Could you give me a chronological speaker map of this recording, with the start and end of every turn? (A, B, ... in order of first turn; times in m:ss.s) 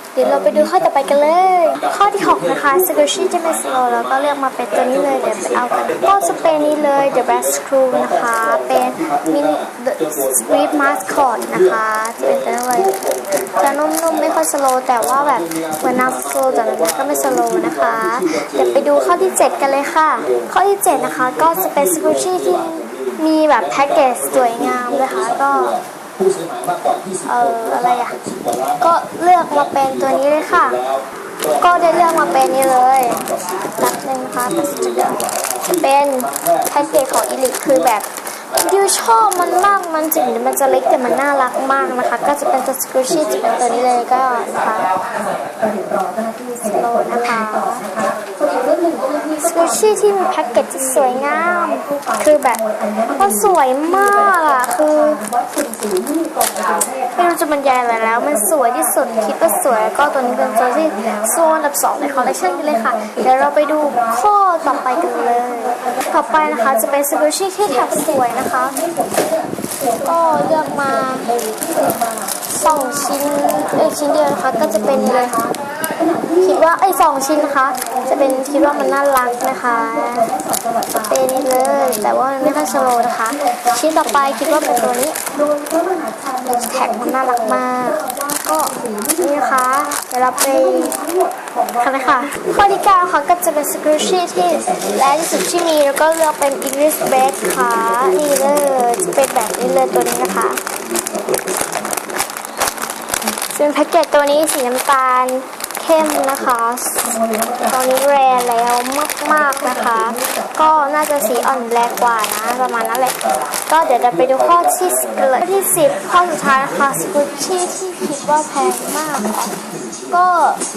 0:00.1-0:25.8 A
0:00.4-0:01.1 B
0:01.7-0:03.9 B
0:04.9-0:07.3 B
0:08.0-0:11.6 B
0:12.4-0:14.0 B
0:15.2-0:19.7 B
0:21.2-0:28.9 B
0:27.2-0:28.2 A
0:28.8-0:30.8 A
0:29.7-0:33.8 B
0:31.5-0:33.2 A
0:33.8-0:44.9 A
0:34.6-0:37.6 B
0:38.7-0:42.4 B
0:43.1-0:44.5 B
0:45.0-1:32.3 C
0:46.6-0:47.8 A
0:49.4-0:52.6 A
0:53.1-0:55.2 A
0:57.2-1:08.8 A
1:10.0-1:11.3 A
1:12.5-1:15.4 A
1:16.4-1:20.3 A
1:20.9-1:25.2 A
1:26.4-1:31.0 A
1:31.8-1:40.6 A
1:34.2-1:35.4 B
1:37.2-1:42.0 B
1:43.5-1:59.5 A
1:47.0-1:48.3 C
1:49.3-1:51.8 C
1:54.2-1:55.4 B
1:59.5-2:00.1 B
2:00.1-2:00.6 A